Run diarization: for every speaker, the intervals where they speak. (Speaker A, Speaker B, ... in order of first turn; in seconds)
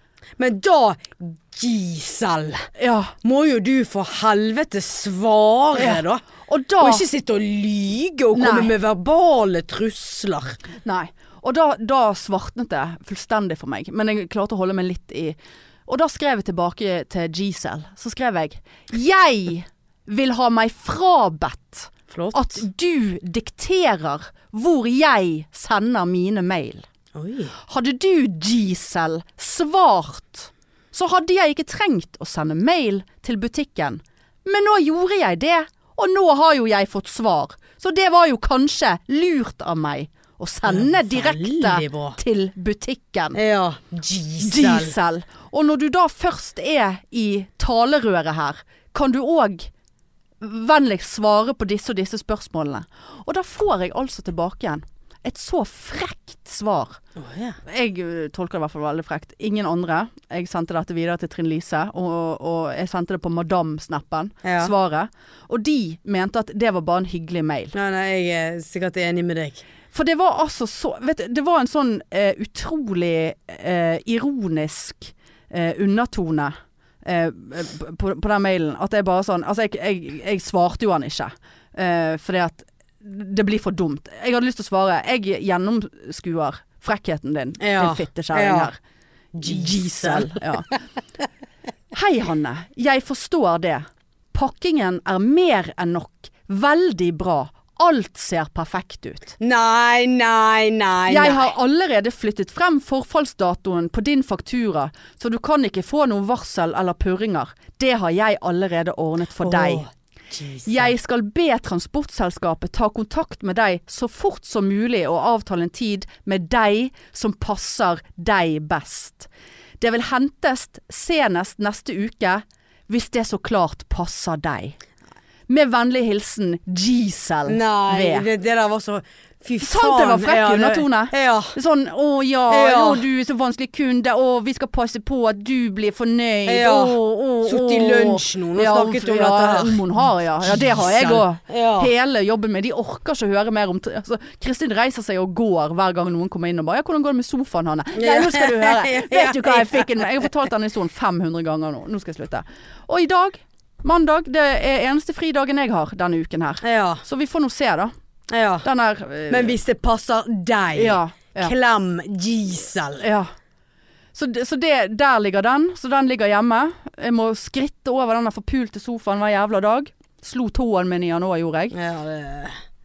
Speaker A: 0.4-2.7, 3.2-6.2, 6.8-10.6, 22.1-22.6, 27.1-27.5, 40.7-42.2, 43.3-44.9, 57.2-57.6, 64.4-64.7, 67.7-69.6, 87.6-88.7, 89.3-90.7, 99.4-101.5, 109.4-110.9, 127.5-131.6, 132.5-133.0, 136.5-141.9, 148.0-150.0, 156.6-157.0, 158.3-158.7, 159.3-163.1, 171.7-172.6
Speaker B: 2.8-3.1, 5.7-7.0, 8.3-8.7, 10.8-26.9, 27.6-43.4, 44.4-49.7, 50.4-57.0, 57.6-67.7, 69.9-76.5, 77.0-88.8, 89.4-90.7, 91.9-99.4, 101.1-109.9, 110.7-119.3, 119.8-124.8, 125.5-128.3, 129.6-157.9, 158.6-159.6, 160.7-161.5, 163.0-163.3, 164.2-171.8